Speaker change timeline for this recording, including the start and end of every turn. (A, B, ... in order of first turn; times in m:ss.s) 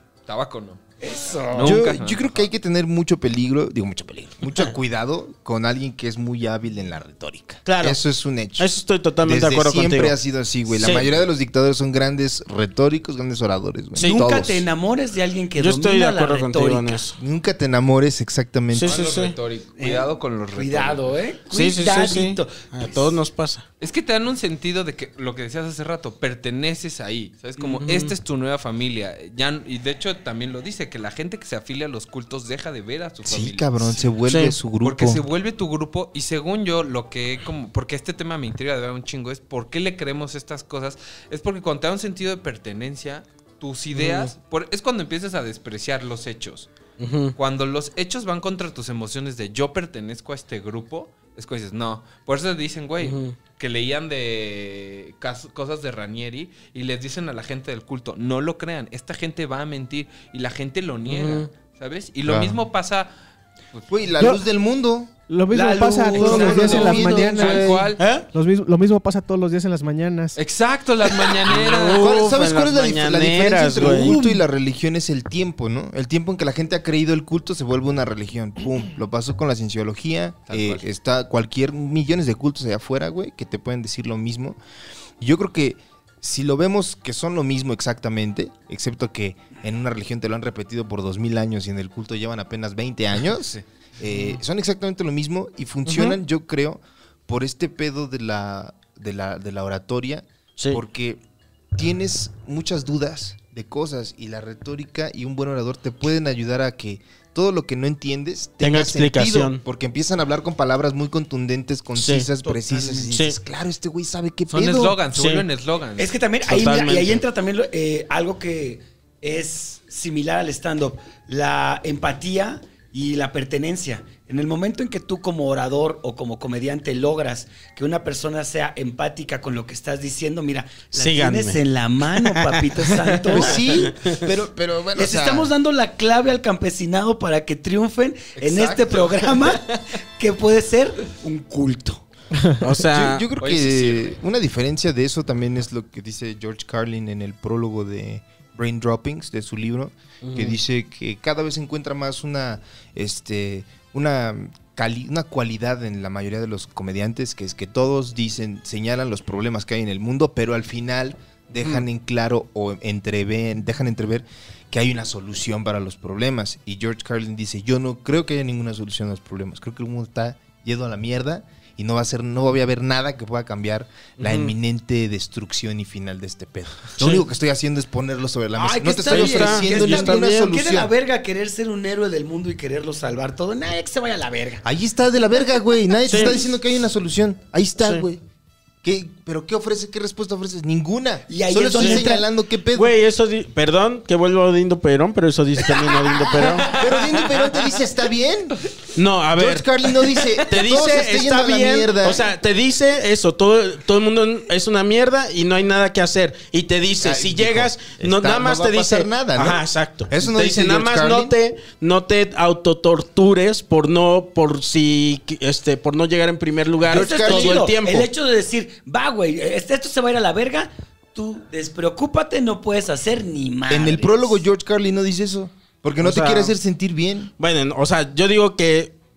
0:00.3-0:00.8 A
0:01.0-0:01.8 B
0:01.5-0:02.4 A
0:01.6-0:14.7 C
0:04.5-0:04.7 D
0:07.6-0:08.0 D
0:08.6-0:10.1 D
0:10.7-0:11.1 D
0:14.0-0:14.2 D
0:14.0-0:17.0 B
0:15.6-0:17.2 D
0:17.2-0:19.0 C
0:18.7-0:19.4 D
0:18.8-0:21.1 A
0:19.8-0:23.1 B
0:21.5-0:23.6 D
0:23.8-0:34.0 A
0:27.8-0:28.1 D
0:33.2-0:35.2 C
0:34.3-0:34.5 D
0:34.8-0:46.7 A
0:43.9-0:44.3 D
0:47.0-0:47.4 D
0:47.4-1:03.1 A
0:53.0-0:53.3 D
1:01.1-1:01.5 D
1:02.2-1:02.6 C
1:03.7-1:04.1 A
1:03.9-1:05.1 C
1:05.3-1:10.4 E
1:05.5-1:07.4 B
1:06.1-1:07.9 C
1:06.4-1:08.2 A
1:08.0-1:08.3 D
1:10.4-1:12.0 A
1:11.4-1:14.2 D
1:11.5-1:24.6 C
1:13.8-1:14.4 B
1:20.5-1:20.8 A
1:25.2-1:41.2 C
1:34.1-1:34.4 D
1:35.8-1:36.2 D
1:41.7-1:55.0 C
1:48.6-1:49.6 D
1:52.0-1:52.3 D
1:52.4-1:53.1 B
1:53.1-1:53.4 D
1:54.5-1:56.2 A
1:55.1-1:55.4 D
1:56.0-2:13.7 B
1:56.4-1:57.2 D
2:10.9-2:12.6 D
2:13.3-2:15.5 C
2:14.9-2:19.6 B
2:18.4-2:19.8 A
2:20.2-2:22.0 B
2:22.6-2:23.2 D
2:22.8-3:00.9 C
2:23.4-2:24.2 A
2:30.2-2:30.6 D
2:41.6-2:41.8 D
2:54.2-2:54.5 D
2:58.6-3:04.6 B
2:59.1-3:00.5 D
3:04.6-3:08.2 C
3:06.1-3:06.4 D
3:07.8-3:08.0 D
3:08.8-3:12.9 C
3:11.3-3:12.2 B
3:11.8-3:12.0 D
3:12.7-3:16.9 D
3:16.4-3:18.6 C
3:18.9-3:19.7 D
3:19.3-3:22.2 C
3:20.3-3:38.1 D
3:27.0-3:31.3 C
3:36.8-3:37.7 C
3:36.9-3:44.4 B
3:43.7-3:47.3 C
3:46.0-3:46.5 D
3:47.4-3:48.9 D